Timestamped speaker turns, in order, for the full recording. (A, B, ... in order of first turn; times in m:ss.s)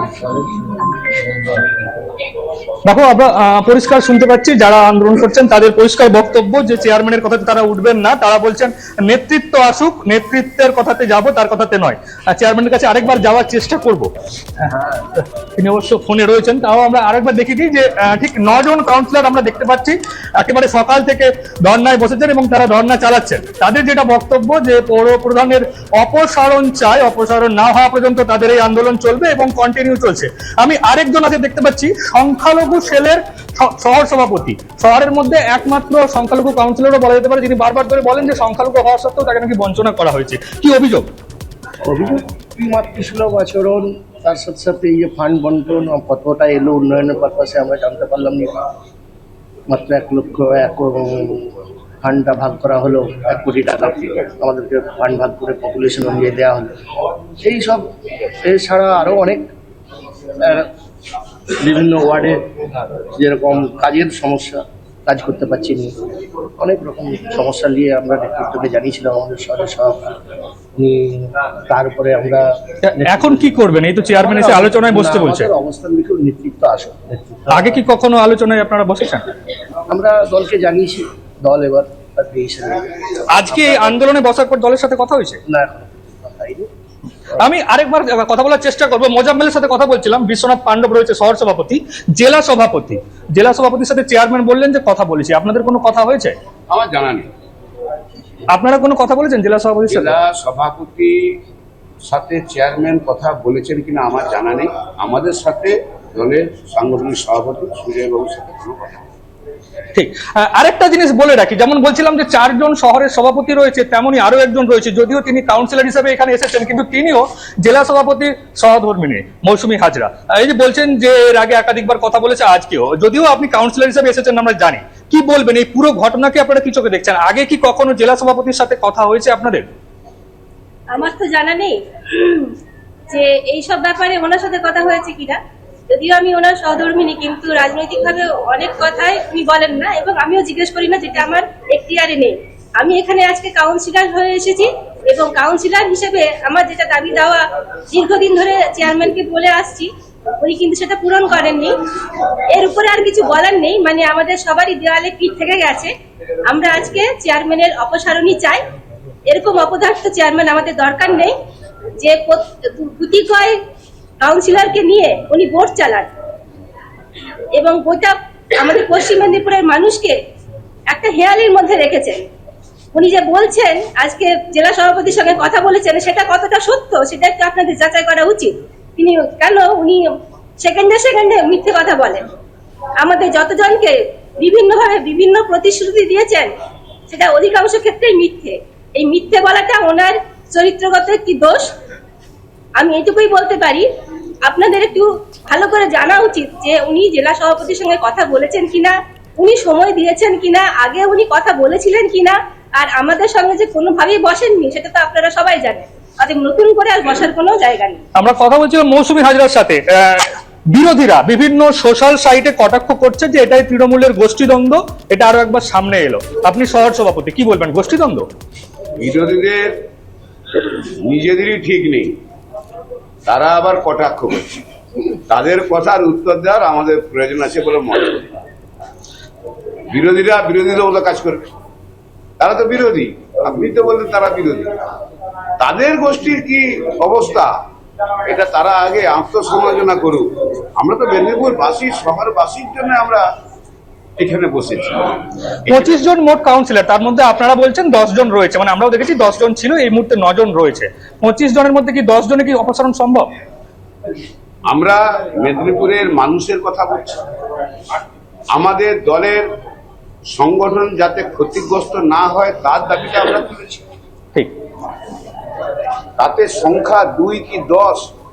0:02.9-0:41.1 A
0:41.8-0:48.6 B
0:49.7-0:51.5 B
0:52.0-0:56.7 B
0:57.4-0:59.5 B
1:00.4-1:00.7 B
1:01.5-1:06.0 B
1:06.6-1:13.6 B
1:12.9-1:15.5 A
1:14.1-1:17.8 B
1:17.5-1:19.3 A
1:19.9-1:24.0 B
1:23.3-1:25.4 A
1:25.5-1:26.7 B
1:27.4-1:36.4 A
1:36.7-1:37.3 C
1:38.5-1:40.2 A
1:39.9-1:41.2 C
1:42.1-1:49.0 C
1:49.9-2:09.7 A
2:10.9-2:12.5 D
2:13.1-2:15.4 D
2:15.9-2:31.8 D
2:32.5-2:35.9 D
2:36.5-2:38.6 D
2:39.3-2:41.4 D
2:42.0-2:43.6 D
2:44.2-2:46.1 D
2:47.6-2:50.2 D
2:50.9-2:52.2 D
2:52.9-3:02.3 D
3:03.0-3:06.5 D
3:07.1-3:11.7 D
3:12.8-3:13.9 D
3:14.4-3:28.0 D
3:28.2-3:38.3 A
3:39.0-3:39.7 C
3:40.9-3:42.1 C
3:43.3-3:44.7 C
3:45.3-3:48.3 C
3:49.9-3:51.5 C
3:52.4-3:54.7 C
3:55.6-3:57.5 C
3:58.3-4:00.3 C
4:00.8-4:03.2 C
4:04.2-4:06.0 C
4:05.7-4:13.3 A
4:14.7-4:17.2 C
4:18.5-4:19.4 C
4:20.3-4:23.8 C
4:26.2-4:28.1 C